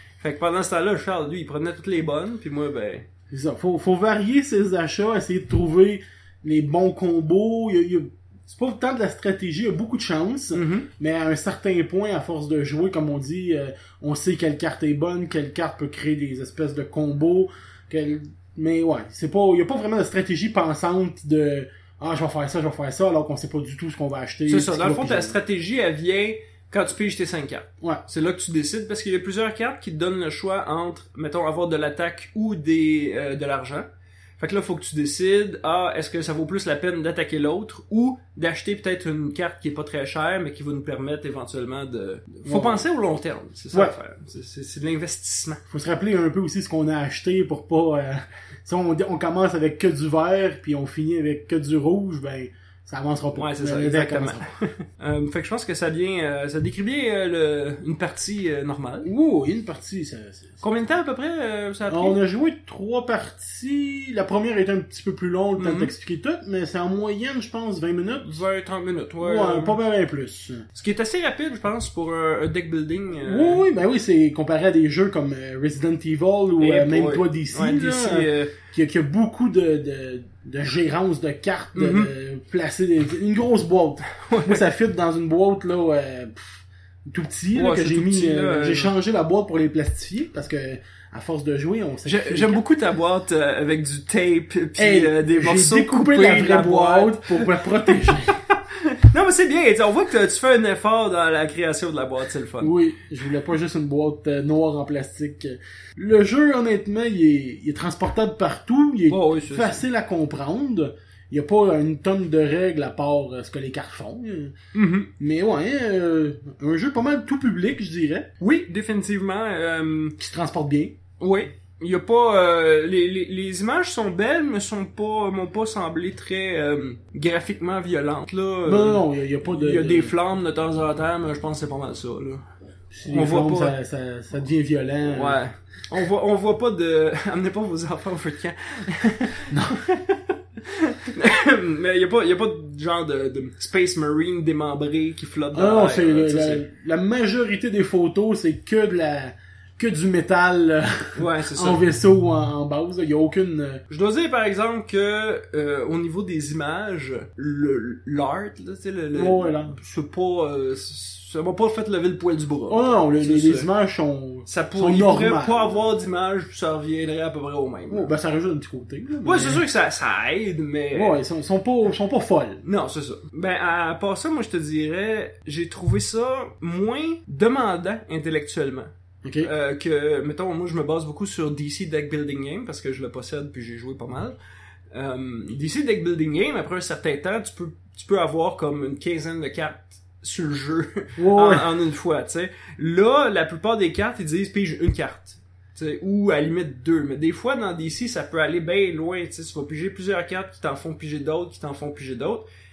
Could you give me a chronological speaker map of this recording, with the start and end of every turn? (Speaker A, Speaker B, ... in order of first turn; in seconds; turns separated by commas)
Speaker A: 0.2-3.0, Speaker B: 3.3-25.4, Speaker A: 10.5-10.9, Speaker A: 24.5-33.9, Speaker A: 34.4-45.6, Speaker B: 42.4-42.8, Speaker B: 45.7-54.5, Speaker A: 53.4-59.1, Speaker B: 59.0-60.6, Speaker A: 60.6-62.2, Speaker B: 61.9-68.4, Speaker A: 65.6-65.9, Speaker A: 68.2-69.8, Speaker B: 69.2-70.7, Speaker A: 70.7-73.6, Speaker B: 73.2-92.6, Speaker A: 76.6-78.5, Speaker A: 81.8-82.1, Speaker A: 84.1-84.6, Speaker A: 87.5-88.9, Speaker A: 92.0-98.0, Speaker B: 94.8-98.4, Speaker A: 98.5-102.7, Speaker B: 102.6-114.5, Speaker A: 109.1-109.8, Speaker A: 114.7-115.1, Speaker B: 115.2-118.3, Speaker A: 118.4-120.2, Speaker B: 120.2-121.0, Speaker A: 121.2-132.4, Speaker B: 128.6-130.1, Speaker B: 132.9-135.4, Speaker A: 133.1-133.7, Speaker A: 135.0-146.6, Speaker B: 139.5-139.8, Speaker B: 145.5-153.8, Speaker A: 151.2-151.8, Speaker A: 153.9-163.7, Speaker B: 159.1-159.7, Speaker B: 162.7-165.8, Speaker A: 164.5-168.1, Speaker B: 167.9-169.6, Speaker A: 169.2-171.2, Speaker B: 170.9-172.6, Speaker A: 172.6-178.9, Speaker B: 179.2-179.5, Speaker A: 179.4-184.3, Speaker A: 184.9-202.4, Speaker B: 191.2-191.7